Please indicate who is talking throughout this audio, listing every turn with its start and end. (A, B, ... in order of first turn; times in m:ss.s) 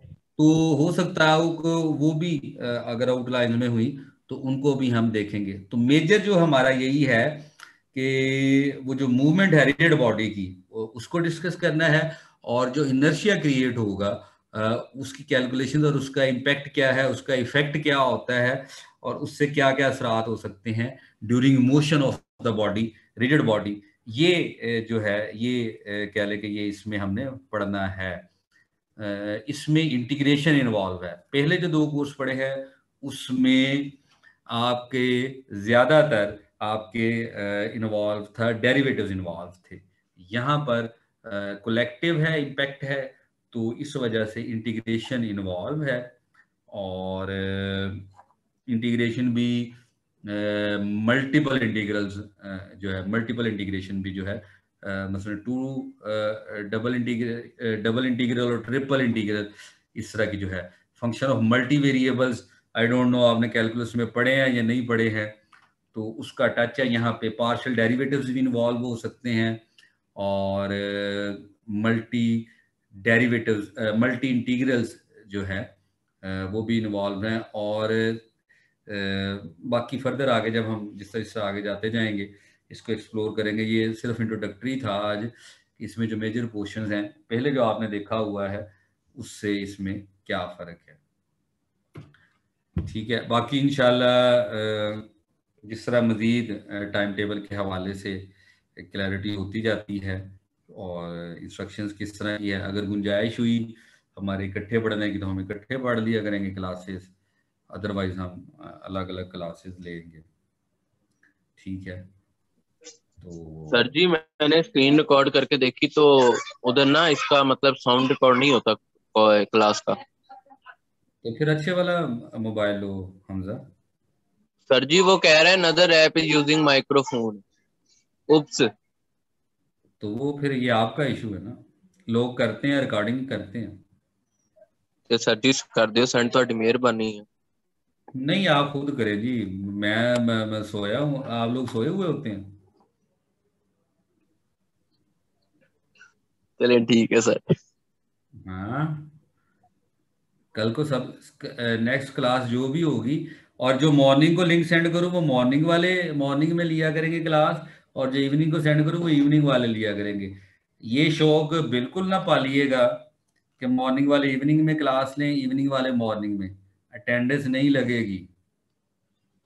0:00.4-0:28.3 A
0:29.0-0:34.0 A
0:34.5-0:46.1 A
0:46.7-0:48.1 A
0:48.7-0:49.8 A
0:50.3-1:05.4 A
1:05.9-1:09.6 A
1:10.2-1:15.7 A
1:16.2-1:18.2 A
1:18.9-1:31.0 A
1:32.8-1:35.1 A
1:35.6-1:47.1 A
1:47.7-1:50.2 A
1:51.6-1:52.1 A
1:53.2-1:53.9 A
1:53.7-2:00.0 B
2:01.2-2:03.6 A
2:04.7-2:07.4 B
2:08.3-2:08.7 B
2:10.0-2:13.8 A
2:15.1-2:17.3 B
2:18.1-2:22.6 A
2:26.6-2:27.4 B
2:28.5-2:29.1 A
2:30.5-2:43.0 A
2:43.6-2:48.3 A